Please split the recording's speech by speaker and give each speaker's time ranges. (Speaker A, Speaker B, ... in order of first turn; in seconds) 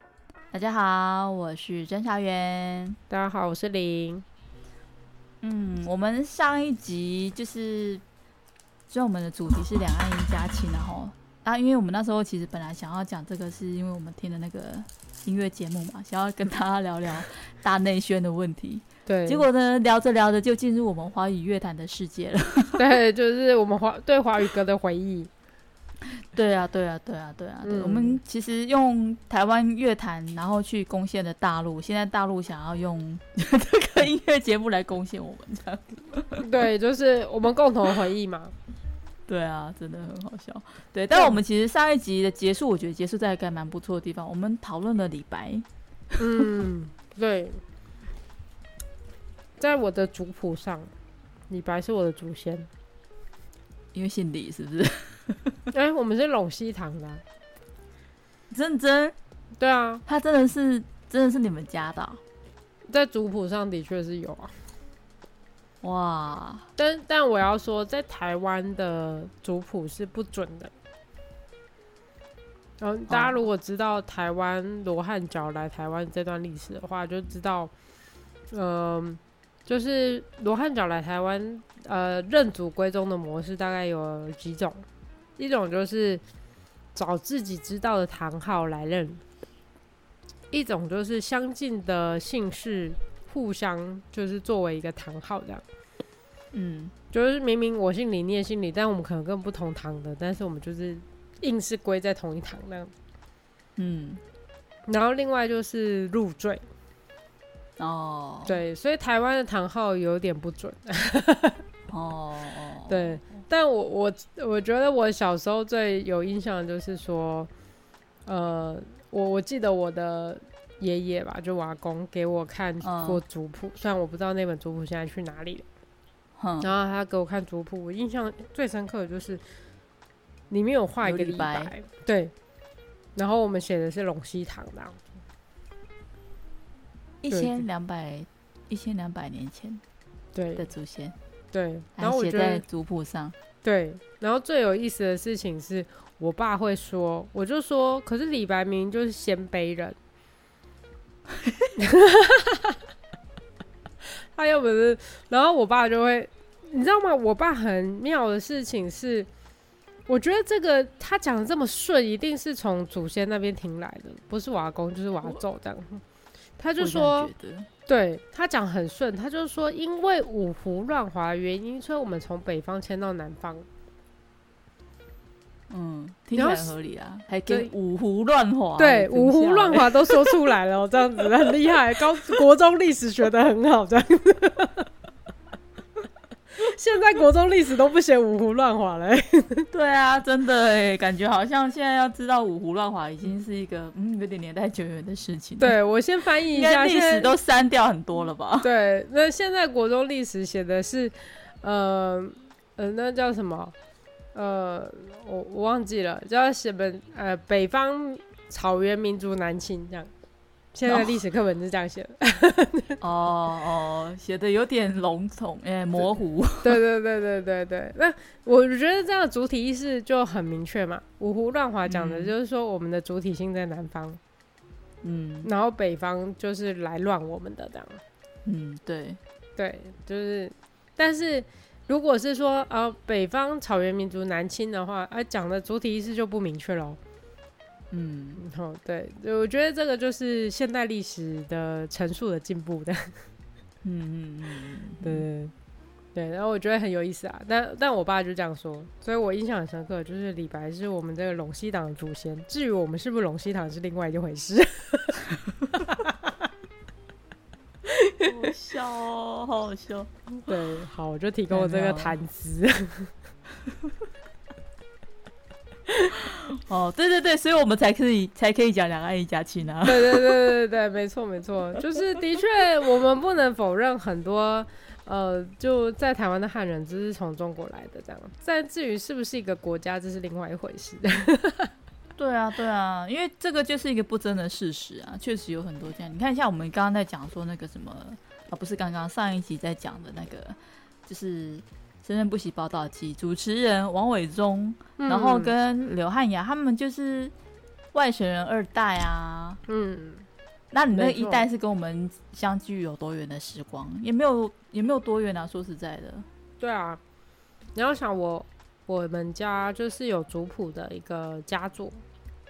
Speaker A: 0.5-3.0, 5.4-8.0, 8.9-22.8, 26.1-36.4, 39.3-46.1, 53.9-55.6, 58.5-59.1, 60.0-62.2, 65.8-66.7, 73.1-73.4, 96.5-96.9, 103.8-104.2, 107.8-108.5, 111.9-113.2, 122.8-123.2, 126.4-126.7, 131.0-131.7, 137.2-139.8, 140.6-141.2, 142.0-143.3, 151.4-151.7, 166.8-167.7, 175.7-180.2, 189.7-195.8, 196.5-198.7, 210.9-211.1, 213.0-216.8, 221.9-222.3, 225.0-225.5, 228.4-229.2, 237.9-238.4, 243.8-245.2, 258.2-260.1, 261.5-262.1, 266.1-270.4, 282.2-297.3, 297.9-299.6, 300.7-306.3
Speaker B: 3.1-4.2, 19.1-19.4, 22.8-25.3, 27.6-28.2, 36.4-38.5, 46.2-47.6, 49.6-50.9, 51.5-52.7, 55.7-57.2, 59.6-60.0, 62.9-64.5, 66.8-70.7, 72.8-77.7, 78.5-84.8, 85.4-86.2, 86.9-89.2, 90.5-95.6, 97.1-102.9, 104.8-106.6, 108.5-111.6, 112.9-117.5, 118.2-125.6, 126.6-129.4, 130.5-132.3, 133.1-135.0, 137.3-137.6, 140.3-140.6, 141.5-142.6, 143.6-149.9, 151.8-152.8, 154.3-159.3, 160.1-166.0, 166.6-167.3, 167.9-173.7, 176.3-176.7, 178.8-184.9, 186.5-189.7, 195.6-197.3, 198.6-203.7, 204.3-210.1, 210.7-213.0, 216.6-224.2, 225.4-228.0, 229.6-237.0, 238.4-243.1, 245.0-245.5, 246.1-255.2, 260.4-263.1, 269.8-281.7, 295.0-295.5, 299.7-300.2, 300.9-301.4, 306.6-307.0, 307.7-312.0